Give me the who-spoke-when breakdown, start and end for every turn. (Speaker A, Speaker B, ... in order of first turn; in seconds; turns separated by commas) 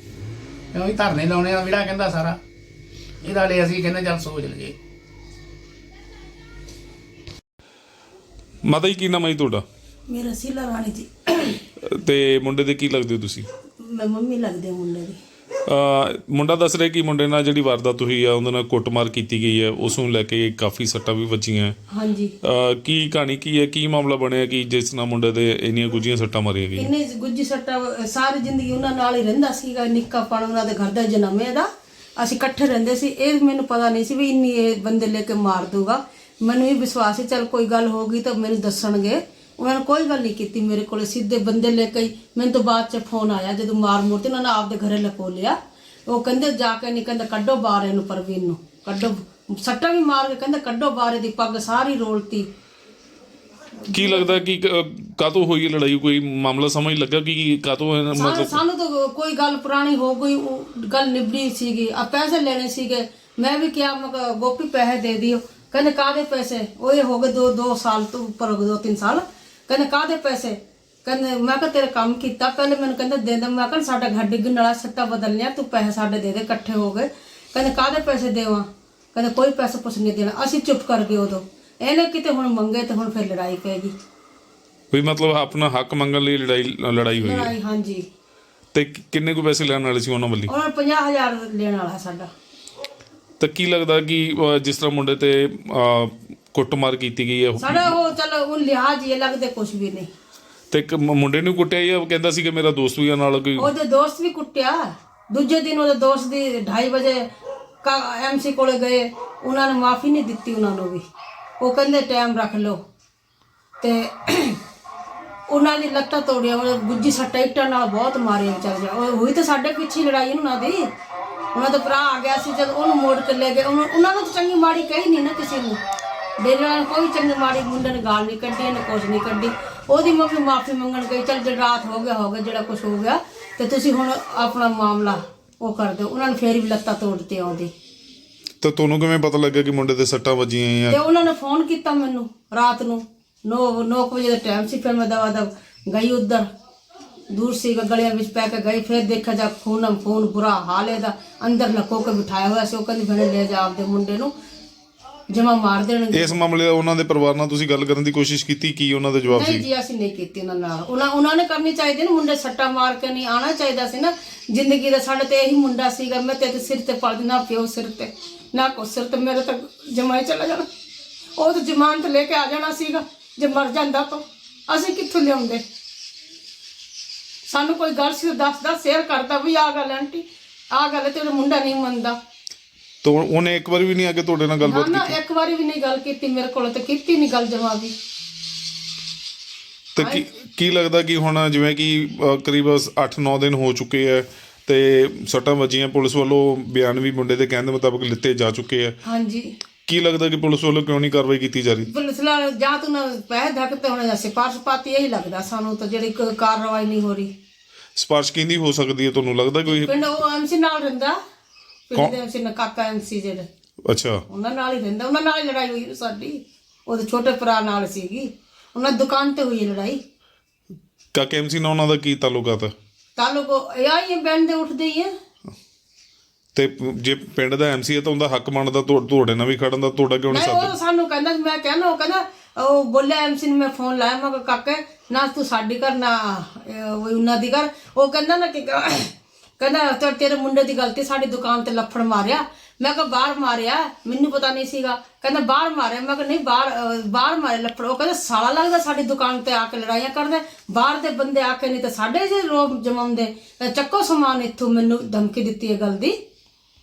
Speaker A: 0.7-2.4, Speaker A: 3.2-4.7, Speaker B: 8.6-9.6, Speaker C: 10.1-11.6, Speaker B: 11.8-13.5, Speaker C: 13.8-15.2, Speaker B: 15.7-21.8, Speaker C: 21.9-22.3, Speaker B: 22.4-26.9, Speaker C: 26.8-45.5, Speaker C: 46.1-52.5, Speaker B: 53.9-58.6, Speaker C: 54.0-54.3, Speaker C: 58.1-83.9, Speaker B: 84.9-87.5, Speaker C: 87.2-88.0, Speaker B: 88.7-90.5, Speaker C: 90.5-92.3, Speaker B: 93.4-97.9, Speaker C: 97.6-100.1, Speaker B: 100.7-103.7, Speaker C: 103.6-104.8, Speaker C: 105.3-107.3, Speaker C: 107.8-111.0, Speaker C: 111.6-112.8, Speaker C: 113.8-114.6, Speaker C: 115.5-120.8, Speaker C: 121.5-125.8, Speaker C: 126.4-137.7, Speaker B: 138.6-141.0, Speaker C: 140.9-146.4, Speaker C: 147.3-154.3, Speaker C: 155.3-156.4, Speaker B: 156.1-159.6, Speaker C: 159.3-170.7, Speaker C: 171.4-175.6, Speaker C: 177.5-182.2, Speaker B: 183.0-185.2, Speaker C: 184.6-187.9, Speaker B: 189.9-198.9, Speaker C: 190.0-190.2, Speaker C: 199.0-199.5, Speaker B: 199.9-201.9, Speaker C: 201.9-207.3, Speaker B: 207.9-209.9, Speaker C: 209.7-211.2, Speaker C: 211.9-213.5, Speaker B: 213.8-214.2, Speaker C: 214.3-220.0, Speaker B: 221.1-222.7, Speaker C: 223.2-225.1, Speaker B: 226.5-230.7, Speaker C: 230.3-256.1